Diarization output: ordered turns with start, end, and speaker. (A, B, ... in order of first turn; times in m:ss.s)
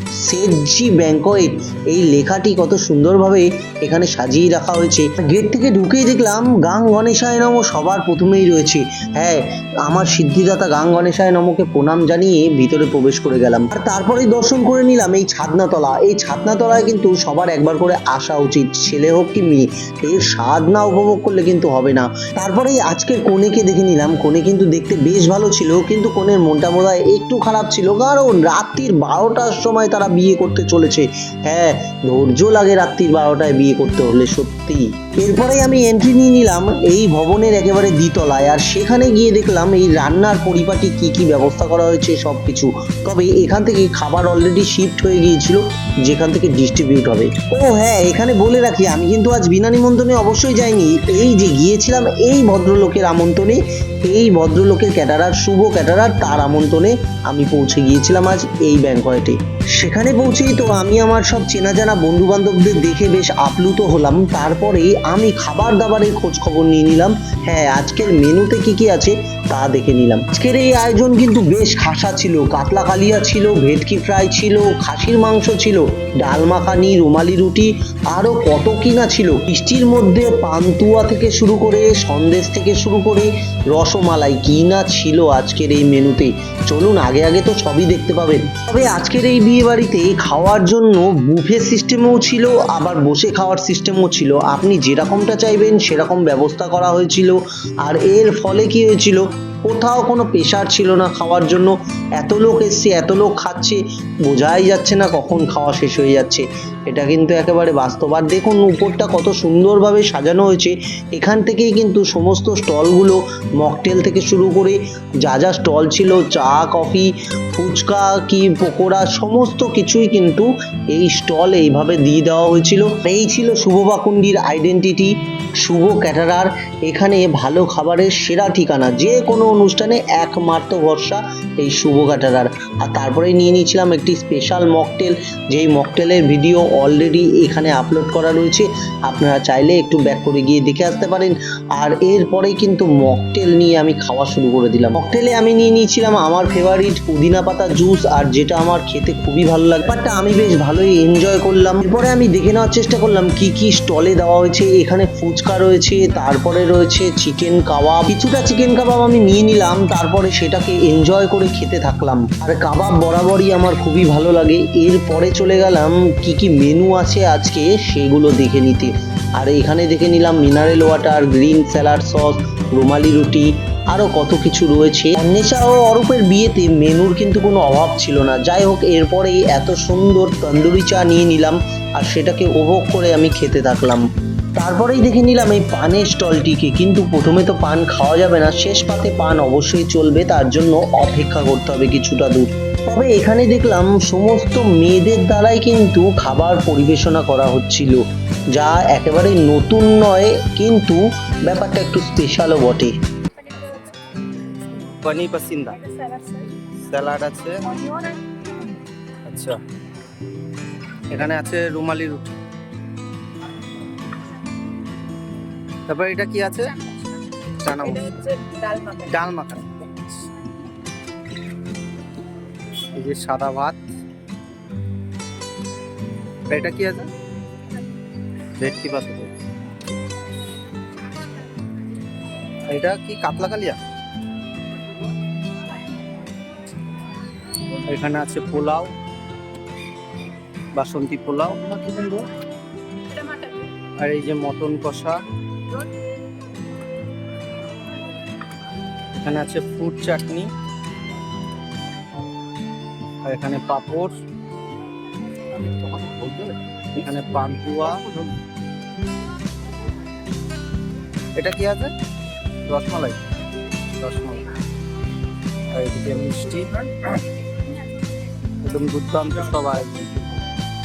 0:00.2-3:04.0 A
3:04.6-3:23.0 A
3:23.5-3:23.9 B
3:24.7-3:28.2 B
3:25.1-3:25.7 A
3:27.0-3:27.3 A
3:29.3-3:29.6 B
3:31.1-3:32.3 B
3:31.5-3:32.0 A
3:35.9-3:36.8 B
3:37.6-3:40.0 B
3:37.7-3:38.2 A
3:43.0-3:43.8 B
3:46.5-3:47.1 B
3:48.6-3:49.3 B
3:52.7-3:53.8 B
3:57.9-3:58.9 B
4:00.8-4:02.2 B
4:03.2-4:05.2 B
4:09.2-4:10.5 B
4:13.3-4:14.1 B
4:15.9-4:16.4 B
4:17.0-4:17.9 B
4:17.3-4:17.9 A
4:21.4-4:21.7 B
4:21.4-4:21.9 A
4:22.7-4:23.2 B
4:24.0-4:24.4 B
4:25.8-4:27.1 B
4:28.6-4:30.1 B